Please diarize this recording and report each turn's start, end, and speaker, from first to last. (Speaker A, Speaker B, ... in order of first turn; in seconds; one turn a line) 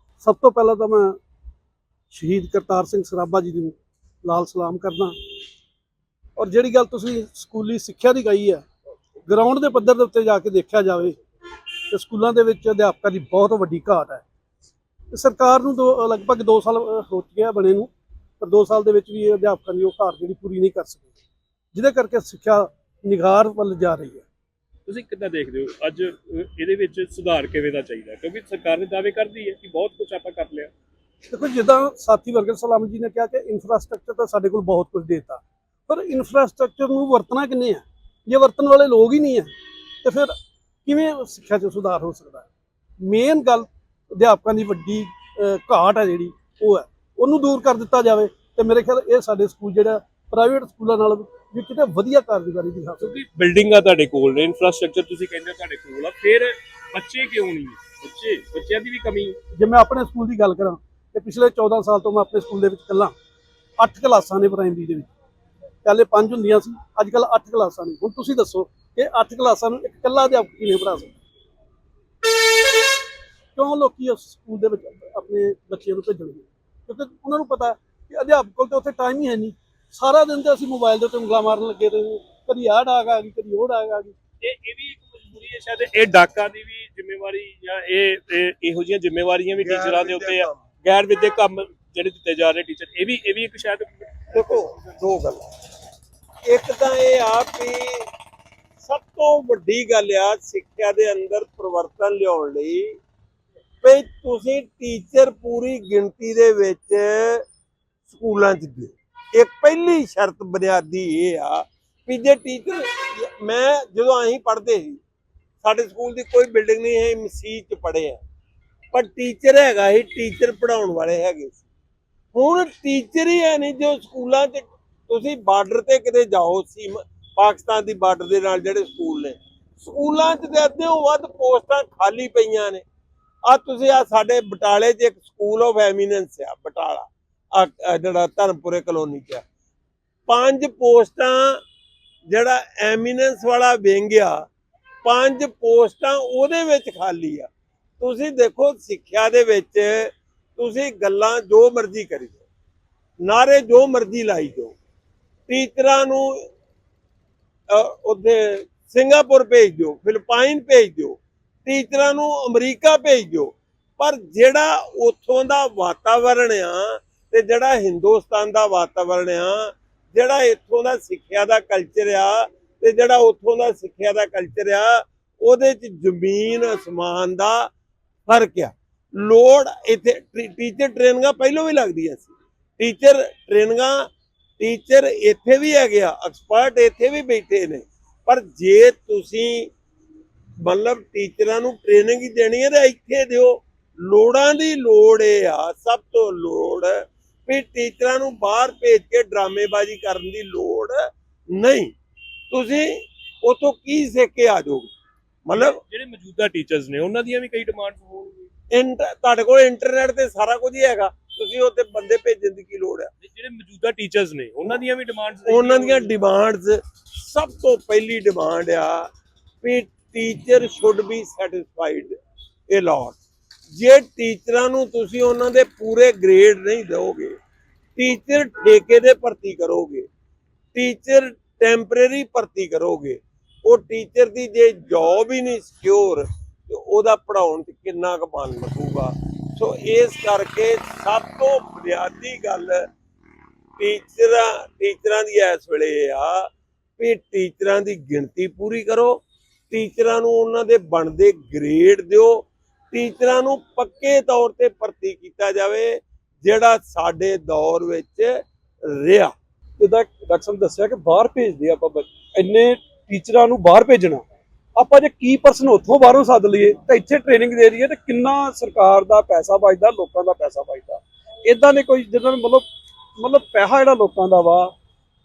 Speaker A: 0.2-1.2
Speaker A: 2.1-5.1
Speaker A: 6.4-8.6
Speaker A: 9.3-11.2
Speaker A: 11.9-14.2
Speaker A: 15.1-21.1
Speaker A: 21.7-24.2
Speaker B: 24.9-30.7
Speaker A: 31.3-39.5
Speaker A: 40.0-40.3
Speaker A: 40.8-42.5
Speaker A: 43.0-53.2
Speaker B: 53.0-59.4
Speaker A: 59.5-63.1
Speaker A: 63.8-65.1
Speaker A: 65.8-71.1
Speaker A: 73.5-84.2
Speaker B: 84.4-94.3
Speaker C: 89.6-90.6
Speaker C: 94.3-95.5
Speaker C: 96.5-98.1
Speaker C: 98.8-103.0
Speaker C: 103.8-107.4
Speaker C: 108.1-115.0
Speaker C: 115.6-118.2
Speaker C: 118.9-121.6
Speaker C: 122.3-132.8
Speaker C: 133.4-139.4
Speaker C: 140.3-141.6
Speaker C: 142.3-144.4
Speaker C: 145.0-147.5
Speaker C: 148.0-152.4
Speaker C: 153.2-154.7
Speaker C: 155.5-156.5
Speaker C: 157.7-177.7
Speaker C: 178.3-189.7
Speaker C: 190.6-201.9
Speaker C: 202.5-204.9
Speaker C: 205.4-205.8
Speaker B: 205.5-208.5
Speaker C: 208.7-213.1
Speaker B: 213.2-216.1
Speaker C: 215.4-219.1
Speaker C: 219.6-222.1
Speaker C: 222.7-223.2
Speaker C: 223.7-227.3
Speaker C: 228.0-230.1
Speaker C: 230.7-242.9
Speaker C: 243.8-259.3
Speaker D: 259.8-264.2
Speaker D: 264.8-272.6
Speaker D: 273.2-274.7